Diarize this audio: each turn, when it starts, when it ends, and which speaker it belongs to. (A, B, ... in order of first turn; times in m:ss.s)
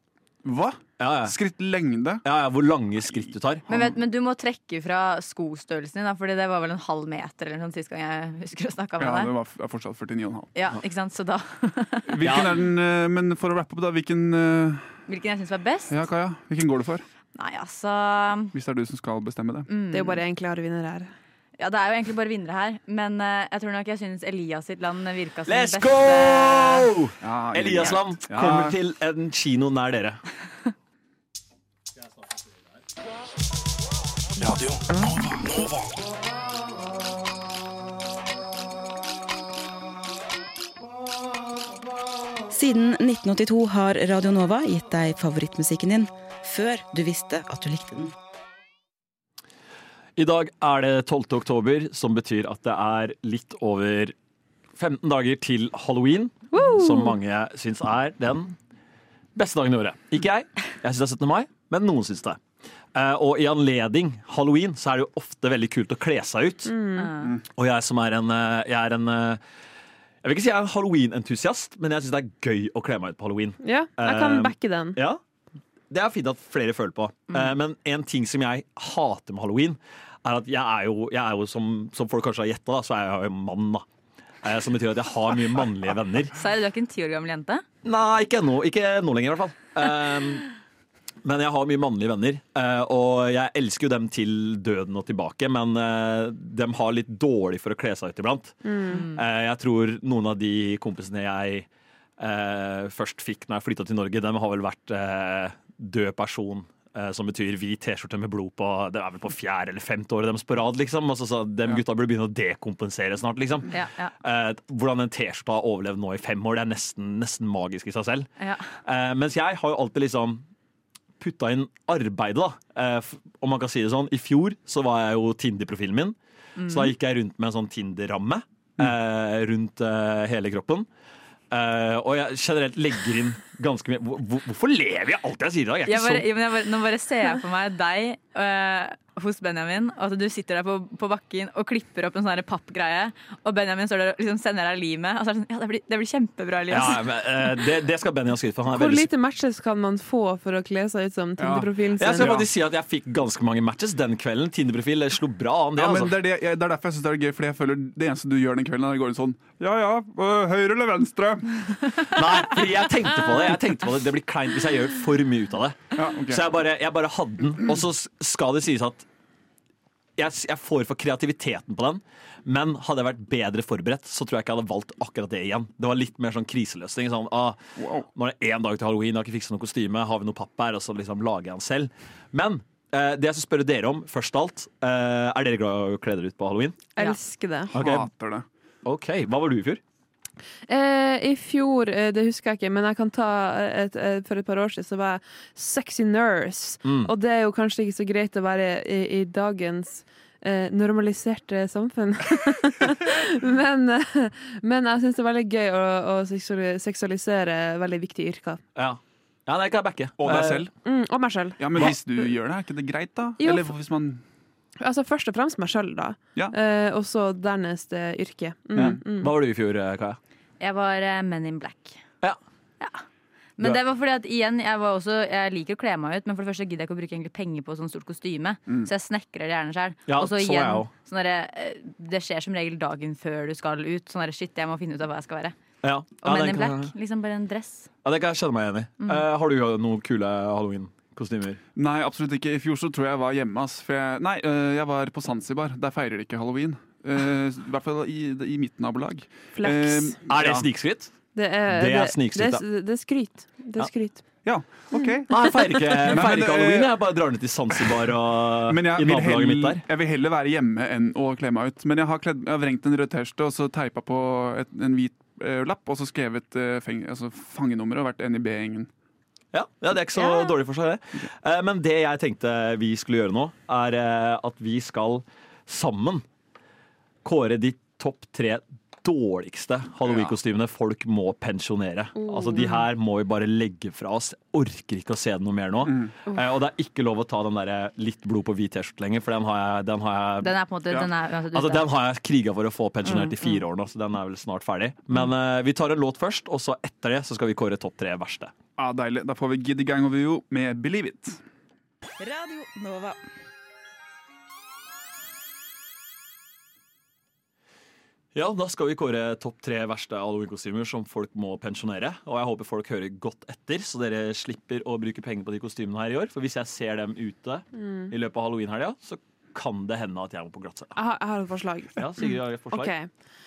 0:00.4-0:02.2 A
0:01.0-0:01.4 B
0:02.2-0:03.6 B
0:03.7-0:09.3 C
0:09.0-0:10.5 A
0:10.5-0:12.2 C
0:12.0-0:15.0 A
0:12.2-0:12.6 B
0:15.1-0:15.9 C
0:15.9-0:17.0 A
0:17.3-0:18.5 C
0:18.5-0:19.7 A
0:19.7-0:20.2 C
0:19.9-0:21.1 D
0:21.6-0:26.9 C
0:25.5-0:30.2 B
0:27.2-0:28.8 A
0:34.4-0:35.6 A
0:34.9-0:35.3 E
0:42.5-0:48.1 E
0:50.2-0:54.1 B
0:54.8-0:58.5 B
0:56.5-0:57.2 D
0:59.3-1:02.4 B
1:02.9-1:06.7 B
1:06.6-1:07.1 D
1:07.0-1:07.3 C
1:07.5-1:09.4 B
1:10.2-1:15.2 B
1:13.6-1:15.0 D
1:15.9-1:23.8 B
1:24.4-1:26.4 B
1:26.3-1:27.6 C
1:27.8-1:30.5 B
1:31.2-1:41.7 B
1:38.6-1:39.0 D
1:38.9-1:39.2 C
1:42.2-2:00.4 B
1:53.7-1:54.1 C
1:58.4-1:58.7 C
2:01.2-2:06.2 B
2:06.6-2:06.9 C
2:06.7-2:10.9 B
2:11.5-2:16.2 B
2:15.8-2:27.0 C
2:26.7-2:29.1 B
2:28.7-2:32.3 D
2:31.4-2:32.5 A
2:32.0-2:36.2 B
2:35.8-2:42.0 A
2:42.0-2:49.0 B
2:45.9-2:46.5 A
2:50.2-3:06.9 B
2:57.8-2:58.1 A
3:07.0-3:07.7 D
3:07.7-3:08.4 A
3:07.7-3:08.1 B
3:08.8-3:09.8 B
3:10.7-3:28.6 D
3:16.8-3:17.1 B
3:28.8-3:30.7 B
3:30.2-3:30.7 A
3:30.8-3:31.9 D
3:31.6-3:34.2 A
3:33.4-3:33.7 D
3:34.8-3:39.3 D
3:38.7-3:39.0 A
3:38.7-3:40.2 B
3:40.6-3:42.0 C
3:43.6-3:55.6 C
3:50.1-3:50.9 B
3:55.8-3:56.9 B
3:56.2-3:57.9 C
3:58.0-4:01.6 B
4:01.8-4:10.7 A
4:09.5-4:10.2 D
4:10.3-4:11.1 B
4:11.3-4:14.2 D
4:11.7-4:12.6 B
4:14.4-4:17.0 A
4:15.3-4:19.8 B
4:17.7-4:28.9 A
4:29.5-4:36.2 B
4:30.2-4:30.6 C
4:37.2-4:58.5 B
4:40.0-4:40.4 A
4:42.2-4:42.7 D
4:42.6-4:42.8 C
4:45.8-4:46.1 A
4:50.4-4:51.9 C
4:53.1-4:53.6 C
4:58.8-5:01.4 A
5:02.2-5:03.2 E
5:08.3-5:21.0 B
5:17.8-5:18.1 D
5:20.9-5:23.1 D
5:22.0-5:22.9 B